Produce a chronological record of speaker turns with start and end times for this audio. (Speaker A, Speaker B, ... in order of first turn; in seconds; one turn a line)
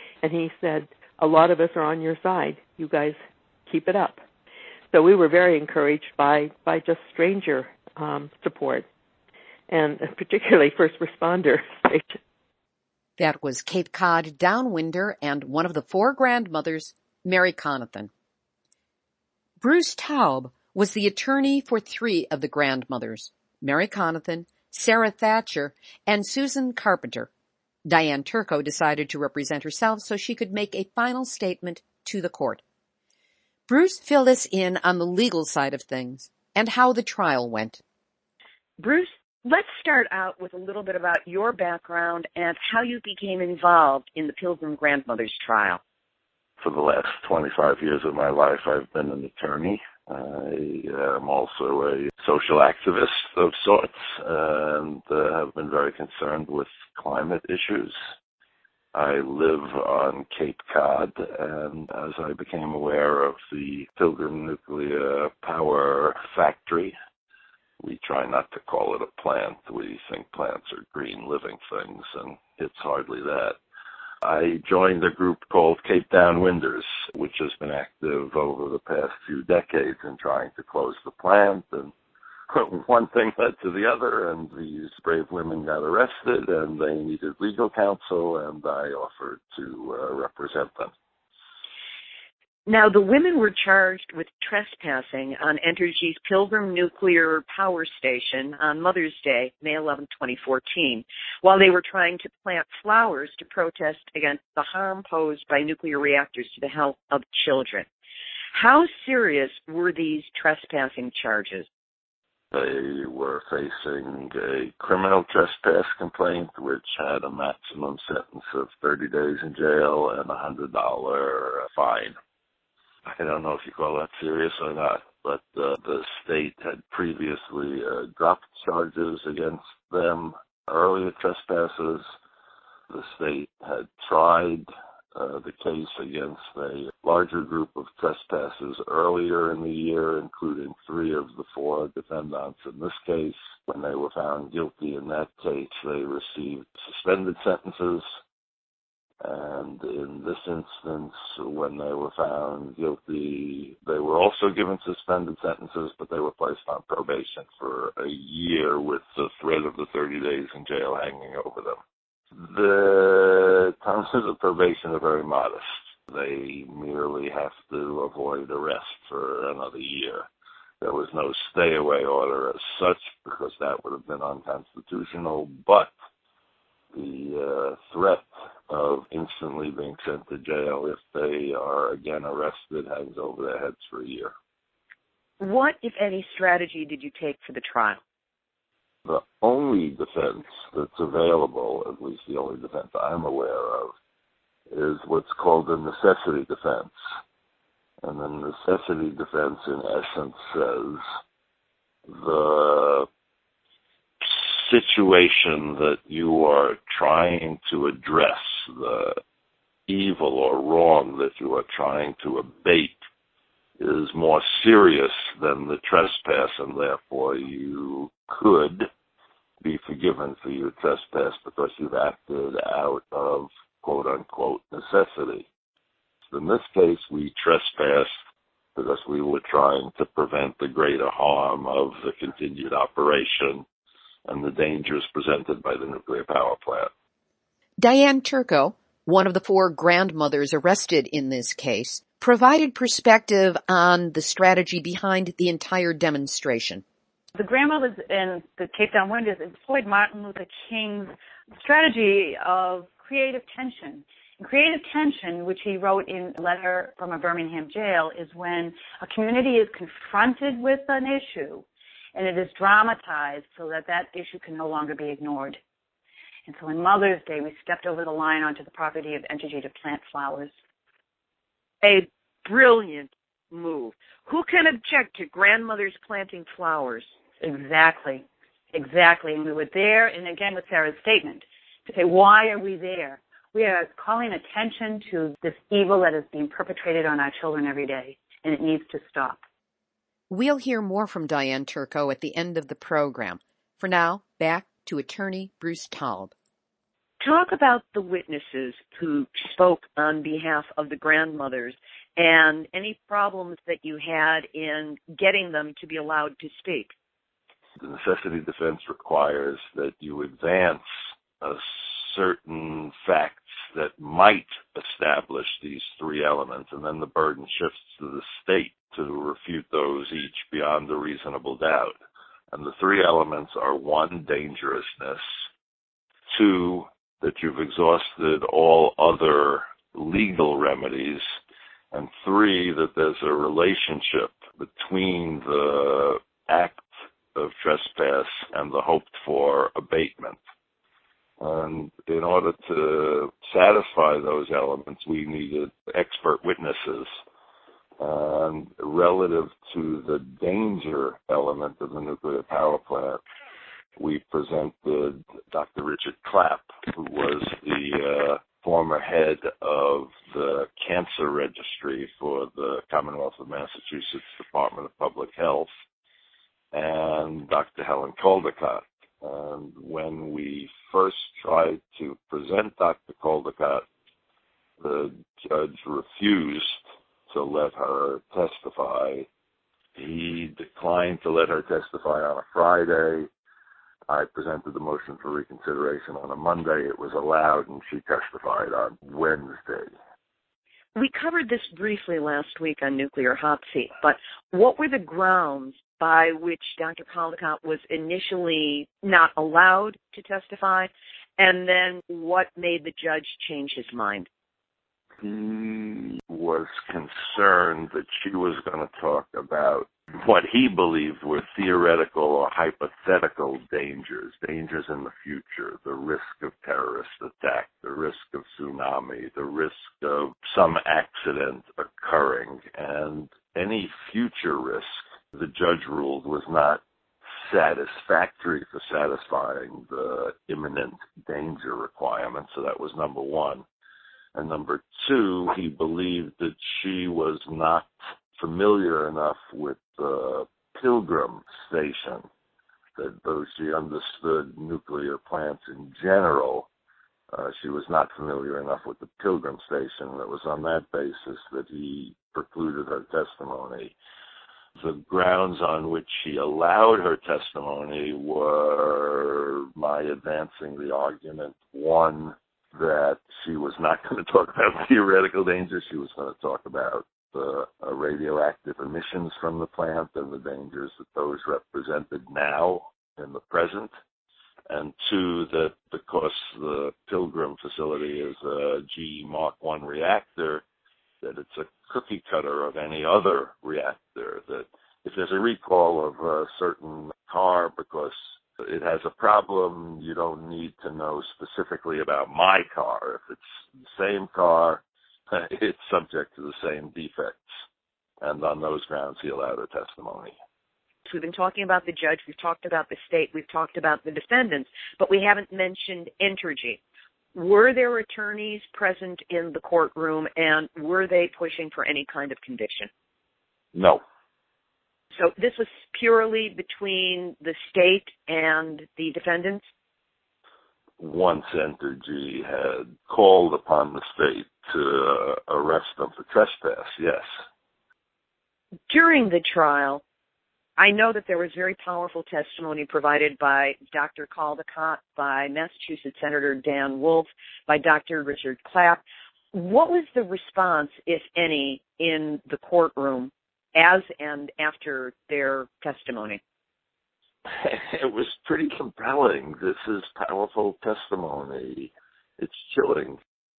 Speaker A: 0.2-4.2
Speaker A: 4.9-8.9
Speaker A: 9.7-12.2
Speaker B: 13.2-18.1
Speaker B: 19.6-27.3
Speaker B: 27.9-32.6
Speaker B: 33.7-37.8
Speaker C: 38.8-45.8
Speaker D: 46.6-58.0
Speaker D: 58.9-66.9
Speaker D: 67.8-73.6
Speaker D: 74.2-81.9
Speaker D: 82.5-90.9
Speaker C: 92.7-107.8
Speaker C: 108.5-111.6
Speaker D: 112.5-122.2
Speaker D: 123.0-132.1
Speaker D: 132.9-148.0
Speaker D: 149.2-161.8
Speaker D: 162.4-170.2
Speaker D: 170.8-175.9
Speaker D: 176.9-184.3
Speaker C: 185.4-188.0
Speaker D: 189.1-193.9
Speaker D: 194.7-196.9
Speaker D: 198.0-201.0
Speaker D: 202.1-203.1
Speaker D: 204.2-209.2
Speaker D: 209.9-213.0
Speaker D: 213.8-218.9
Speaker D: 219.6-225.5
Speaker D: 226.3-228.1
Speaker D: 228.7-233.7
Speaker D: 234.3-236.9
Speaker B: 237.8-246.8
Speaker E: 247.3-265.6
Speaker E: 266.5-270.5
Speaker C: 271.8-277.1
Speaker E: 277.4-289.4
Speaker B: 290.3-296.3
Speaker C: 297.2-306.9
Speaker D: 307.8-310.8
Speaker D: 311.4-321.9
Speaker D: 322.5-325.2
Speaker D: 326.3-331.2
Speaker D: 331.9-340.4
Speaker D: 341.4-347.1
Speaker D: 348.0-353.2
Speaker D: 354.0-365.7
Speaker D: 366.7-373.8
Speaker D: 374.8-379.3
Speaker D: 379.9-383.3
Speaker D: 384.1-389.9
Speaker C: 390.9-404.3
Speaker D: 405.2-426.8
Speaker D: 427.4-433.6
Speaker D: 434.3-442.3
Speaker D: 442.9-446.7
Speaker D: 447.3-453.9
Speaker D: 454.8-473.9
Speaker D: 474.7-480.6
Speaker D: 481.2-497.5
Speaker D: 498.2-500.3
Speaker C: 501.1-506.8
Speaker C: 507.3-512.9
Speaker D: 513.7-514.0
Speaker C: 515.2-519.6
Speaker D: 521.0-527.3
Speaker C: 528.9-530.0
Speaker C: 530.8-539.0
Speaker C: 539.5-546.4
Speaker D: 547.5-553.2